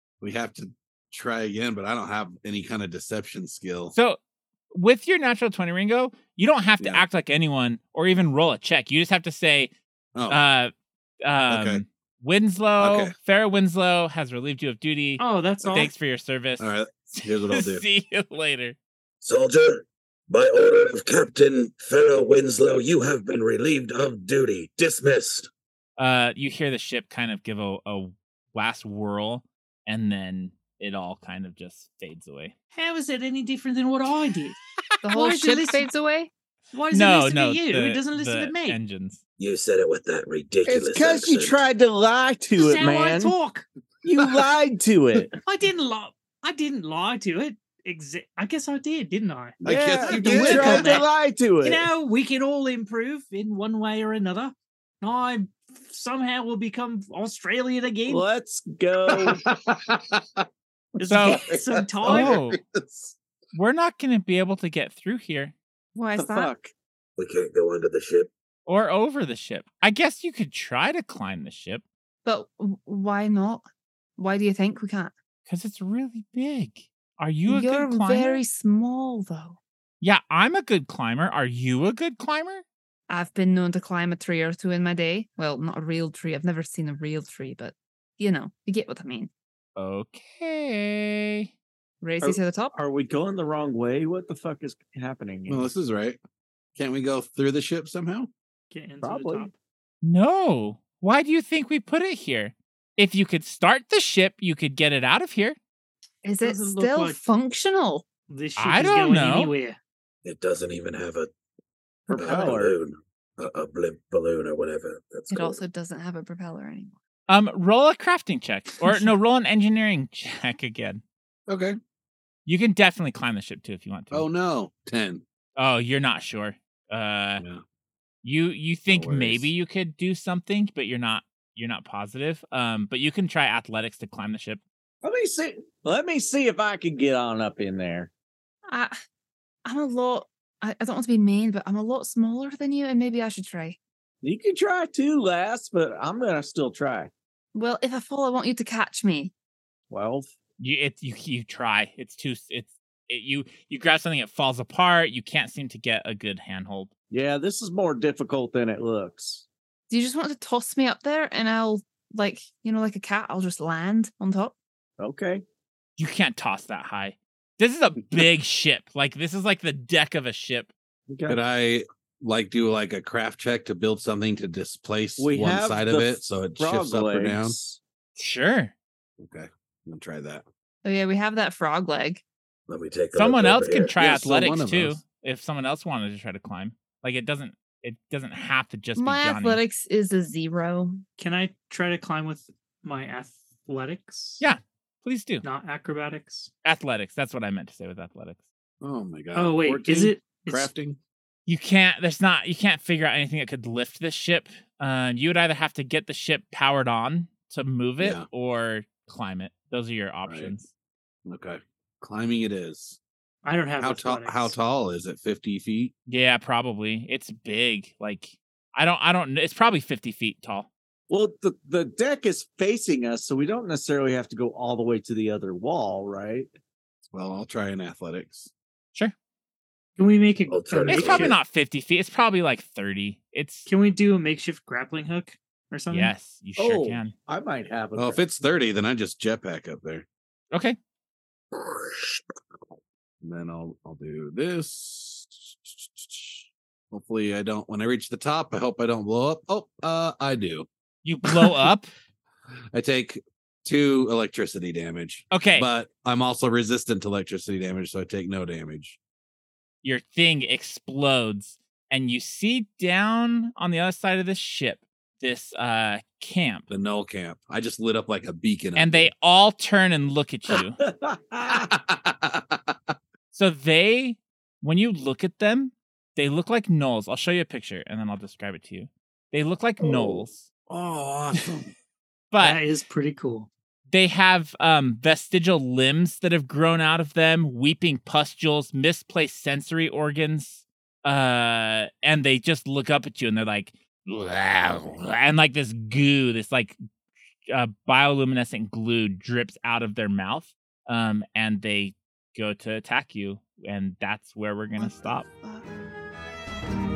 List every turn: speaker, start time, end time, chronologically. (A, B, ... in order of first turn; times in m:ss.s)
0:00.2-0:03.9 A
0:03.9-0:04.2 B
0:04.7-0:09.7 B
0:06.8-0:07.1 A
0:10.1-0:10.4 A
0:10.3-0:10.7 B
0:11.2-0:18.8 B
0:11.5-0:11.8 A
0:12.8-0:13.1 A
0:15.2-0:15.9 C
0:16.6-0:17.8 A
0:19.2-0:25.5 D
0:26.0-0:32.5 B
0:32.7-0:34.6 C
0:35.0-0:36.3 E
0:35.1-0:35.9 C
0:36.7-0:38.8 C
0:36.9-0:39.2 B
0:39.4-0:41.6 D
0:40.6-0:43.4 F
0:42.6-0:43.6 C
0:44.0-0:45.4 F
0:45.4-0:51.1 C
0:49.6-0:51.0 A
0:49.6-0:51.9 F
0:51.6-0:58.3 C
0:58.1-0:59.4 F
0:59.1-1:00.4 A
1:01.0-1:03.2 A
1:01.0-1:02.4 C
1:01.0-1:01.4 B
1:02.1-1:02.6 B
1:03.5-1:05.6 B
1:05.9-1:06.5 E
1:06.2-1:06.7 F
1:07.2-1:08.3 D
1:08.6-1:11.8 B
1:12.2-1:13.6 E
1:14.2-1:15.1 E
1:15.5-1:18.4 B
1:17.5-1:19.6 E
1:20.0-1:22.6 B
1:23.1-1:29.3 E
1:29.8-1:31.5 B
1:32.0-1:32.7 E
1:32.2-1:35.7 F
1:35.5-1:36.2 A
1:36.8-1:38.3 A
1:38.7-1:39.5 C
1:39.0-1:39.5 F
1:40.0-1:45.6 B
1:46.2-1:48.1 E
1:46.4-1:47.2 C
1:48.3-1:49.8 C
1:48.6-1:49.5 B
1:50.2-1:51.3 D
1:52.1-1:52.8 F
1:52.1-1:55.6 D
1:55.3-1:56.9 E
1:57.3-2:01.0 B
2:01.5-2:01.8 A
2:02.4-2:04.3 B
2:04.1-2:05.2 A
2:05.6-2:07.4 B
2:08.2-2:14.6 B
2:08.9-2:09.5 A
2:15.0-2:18.1 F
2:18.7-2:19.0 E
2:19.6-2:23.8 E
2:24.2-2:27.1 F
2:27.6-2:29.3 E
2:29.9-2:30.3 F
2:30.6-2:36.9 B
2:37.1-2:39.4 F
2:39.9-2:44.6 E
2:45.0-2:45.4 F
2:46.0-2:50.7 B
2:51.1-2:51.4 F
2:51.3-2:57.6 A
2:55.2-2:57.8 F
2:58.2-2:58.7 B
2:59.2-3:00.4 A
3:00.8-3:02.2 E
3:02.7-3:04.0 D
3:03.1-3:09.6 B
3:04.0-3:05.0 A
3:08.9-3:11.0 E
3:11.2-3:14.4 C
3:14.4-3:15.4 B
3:15.4-3:16.5 C
3:16.6-3:18.4 B
3:18.8-3:21.0 A
3:19.3-3:20.7 C
3:21.5-3:30.7 B
3:28.0-3:28.3 A
3:30.3-3:30.5 A
3:31.3-3:33.0 A
3:33.4-3:34.6 C
3:33.8-3:35.9 A
3:36.1-3:40.7 B
3:41.1-3:46.5 F
3:47.1-3:48.5 A
3:50.0-3:51.3 C
3:50.5-3:51.4 D
3:50.9-3:53.7 B
3:53.7-3:56.1 C
3:55.9-3:57.1 B
3:56.6-3:58.2 F
3:56.7-3:57.0 A
3:58.0-4:00.1 A
4:00.5-4:00.8 B
4:01.7-4:02.2 D
4:03.2-4:10.7 A
4:11.0-4:11.9 B
4:12.7-4:19.0 A
4:15.3-4:15.7 B
4:19.8-4:26.6 B
4:26.7-4:29.1 A
4:28.8-4:30.8 B
4:30.5-4:31.7 F
4:31.5-4:32.9 A
4:33.3-4:40.5 B
4:39.8-4:41.7 A
4:42.3-4:42.6 B
4:42.4-4:43.5 C
4:43.9-4:56.8 B
4:57.5-5:05.3 B